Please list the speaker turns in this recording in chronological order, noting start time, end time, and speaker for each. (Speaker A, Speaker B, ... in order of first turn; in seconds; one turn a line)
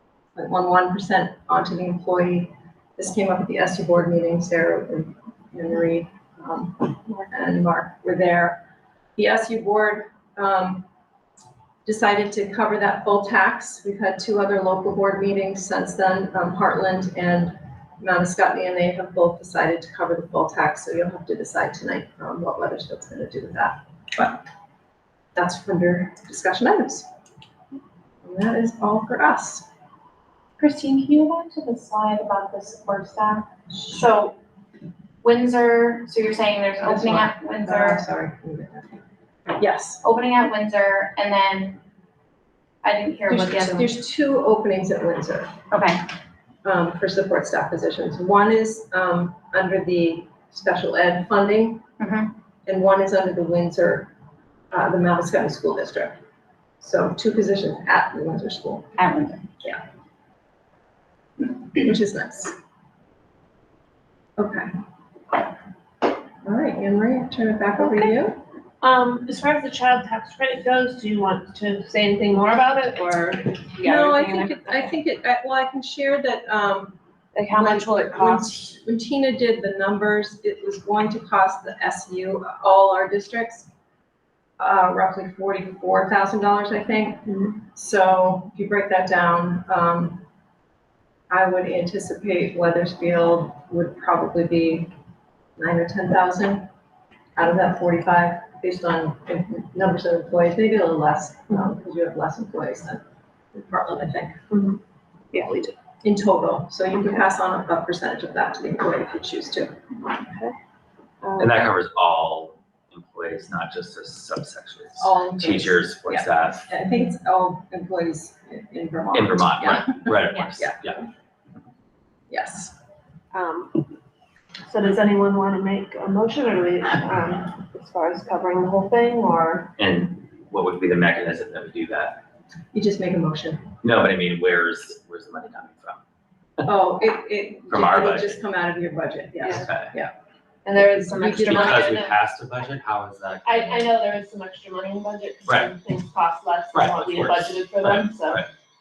Speaker A: 0.3-8.6
Speaker A: 9.2-10.8
Speaker A: 11.8-24.4
Speaker A: 25.3-27.1
Speaker A: 28.2-29.6
Speaker B: 30.6-34.4
Speaker B: 35.2-38.0
Speaker A: 36.8-39.0
Speaker A: 39.5-40.0
Speaker B: 40.0-41.8
Speaker B: 42.8-43.9
Speaker A: 43.3-45.5
Speaker B: 45.7-46.0
Speaker A: 46.6-51.9
Speaker B: 52.0-52.3
Speaker A: 52.6-54.1
Speaker A: 54.7-56.2
Speaker A: 56.8-58.9
Speaker B: 59.0-59.5
Speaker A: 61.7-62.5
Speaker A: 64.4-64.7
Speaker A: 66.4-68.4
Speaker C: 67.8-68.1
Speaker C: 68.8-74.9
Speaker A: 73.8-77.0
Speaker C: 77.3-78.7
Speaker A: 77.5-83.7
Speaker A: 84.6-90.2
Speaker A: 91.3-94.9
Speaker A: 95.6-96.7
Speaker A: 97.3-103.0
Speaker A: 103.5-104.4
Speaker C: 104.5-104.8
Speaker C: 105.3-105.8
Speaker A: 106.0-109.8
Speaker C: 110.1-110.5
Speaker C: 111.2-111.7
Speaker D: 111.4-116.7
Speaker A: 115.0-121.0
Speaker D: 119.1-121.0
Speaker A: 122.3-122.7
Speaker C: 123.3-123.8
Speaker C: 124.7-129.7
Speaker D: 129.8-132.2
Speaker A: 132.7-133.7
Speaker D: 133.8-136.0
Speaker A: 136.6-140.1
Speaker D: 137.7-138.4
Speaker D: 139.4-139.9
Speaker C: 140.7-141.7
Speaker A: 140.7-142.0
Speaker B: 140.7-142.1
Speaker D: 141.3-143.8
Speaker C: 143.4-148.4
Speaker D: 145.4-145.7
Speaker D: 146.7-148.5